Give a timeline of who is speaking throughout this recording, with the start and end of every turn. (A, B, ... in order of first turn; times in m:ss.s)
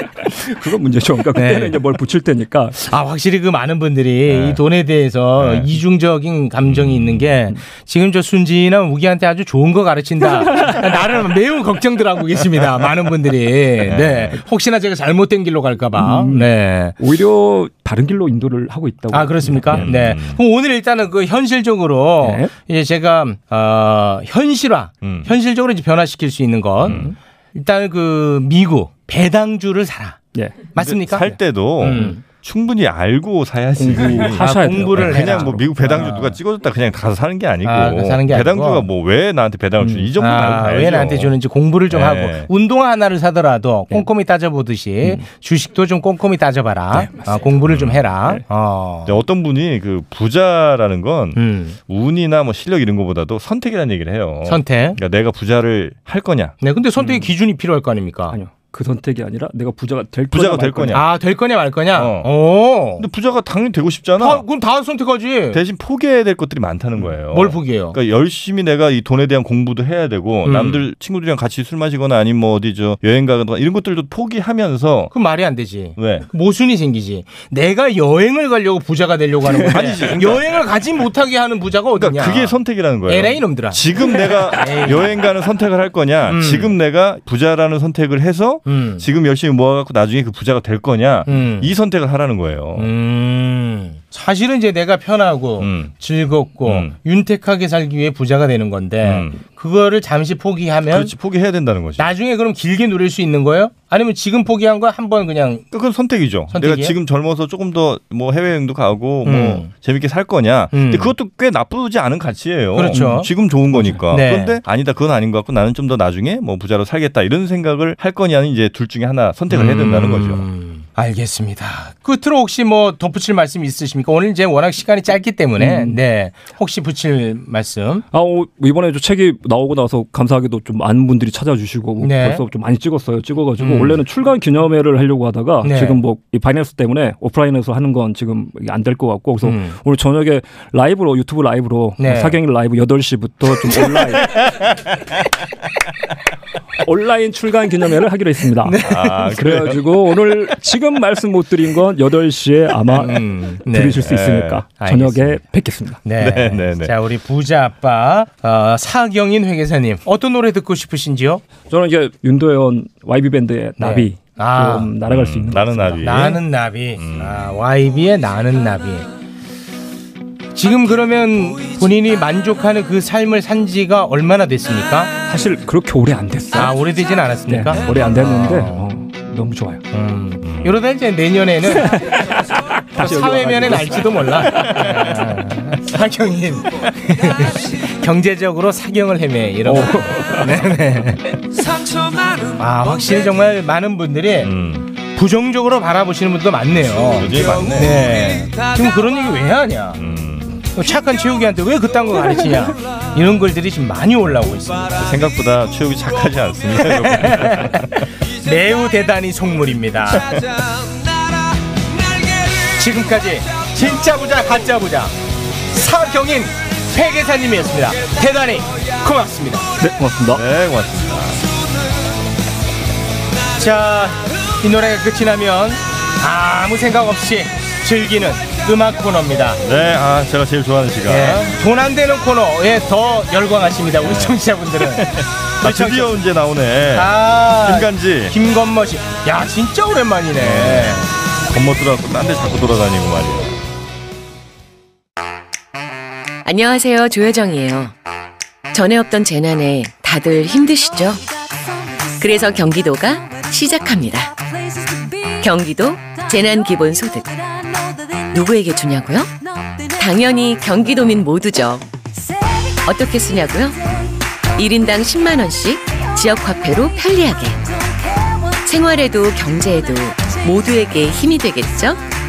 0:00.3-0:02.8 A
0:01.3-0:01.8 B
0:02.8-0:17.0 B
0:04.3-0:04.6 C
0:05.4-0:05.7 C
0:06.7-0:07.3 C
0:10.3-0:10.8 A
0:13.8-0:14.4 C
0:16.0-0:19.9 A
0:19.1-0:30.2 B
0:19.7-0:20.4 C
0:22.2-0:22.5 A
0:25.0-0:25.3 C
0:26.8-0:27.1 C
0:26.9-0:27.1 A
0:30.3-0:30.7 A
0:30.7-0:32.2 B
0:30.8-0:41.4 C
0:33.8-0:35.7 A
0:34.2-0:36.4 B
0:37.6-0:38.9 B
0:39.8-0:40.1 A
0:40.2-0:49.1 B
0:41.9-0:42.5 C
0:47.6-0:48.1 C
0:49.0-0:56.6 C
0:51.3-0:51.8 B
0:54.4-0:55.0 B
0:56.6-0:58.4 B
0:58.3-1:01.0 A
1:00.3-1:01.0 C
1:00.9-1:03.0 B
1:01.9-1:02.3 C
1:03.0-1:04.4 C
1:04.2-1:05.6 B
1:05.5-1:15.1 C
1:07.0-1:08.0 B
1:10.4-1:10.8 B
1:15.1-1:25.2 B
1:16.0-1:16.2 C
1:19.5-1:20.6 C
1:21.9-1:32.9 C
1:26.3-1:26.7 B
1:28.6-1:29.0 B
1:31.2-1:31.7 B
1:32.8-1:41.1 B
1:35.6-1:35.9 C
1:36.6-1:36.9 C
1:39.0-1:39.4 C
1:40.9-1:42.1 C
1:42.0-1:45.6 B
1:45.7-2:00.5 C
1:46.5-1:47.0 B
1:49.2-1:49.7 B
1:50.7-1:51.1 B
1:52.7-1:53.3 B
1:54.1-1:54.6 B
1:59.5-2:08.0 B
2:05.6-2:06.0 A
2:08.1-2:24.4 A
2:12.0-2:12.4 B
2:13.6-2:14.0 B
2:15.6-2:16.0 B
2:19.4-2:19.8 B
2:22.0-2:22.4 B
2:26.8-2:36.0 A
2:28.6-2:29.4 B
2:28.8-2:29.8 C
2:32.9-2:34.1 B
2:34.0-2:34.6 C
2:34.8-2:35.4 B
2:36.0-2:41.4 B
2:36.2-2:37.0 C
2:41.7-2:46.3 A
2:43.8-2:44.9 B
2:45.1-2:46.4 C
2:46.0-2:49.1 B
2:46.9-2:47.5 C
2:50.5-2:55.1 B
2:55.3-2:56.8 A
2:56.5-2:58.8 B
2:57.5-2:59.8 A
2:59.9-3:01.9 B
3:00.4-3:00.8 C
3:01.7-3:05.0 A
3:03.0-3:11.4 B
3:09.6-3:10.6 A
3:12.6-3:14.5 B
3:14.4-3:14.9 C
3:15.1-3:20.0 B
3:17.1-3:18.0 C
3:20.0-3:20.7 C
3:20.7-3:25.0 B
3:25.0-3:28.0 C
3:27.0-3:27.8 B
3:28.4-3:30.3 B
3:32.7-3:35.1 B
3:35.7-3:39.6 B
3:39.8-3:40.4 A
3:40.3-3:41.4 C
3:43.5-3:49.6 B
3:49.6-3:51.5 C
3:51.1-3:56.2 B
3:54.0-3:58.3 C
3:56.9-4:01.1 B
4:00.4-4:03.6 C
4:06.4-4:07.9 D
4:08.7-4:11.2 D
4:12.2-4:14.4 D
4:15.3-4:17.4 D
4:18.3-4:19.3 D
4:19.9-4:21.8 D
4:22.8-4:24.0 D
4:24.5-4:27.7 D
4:28.6-4:32.0 D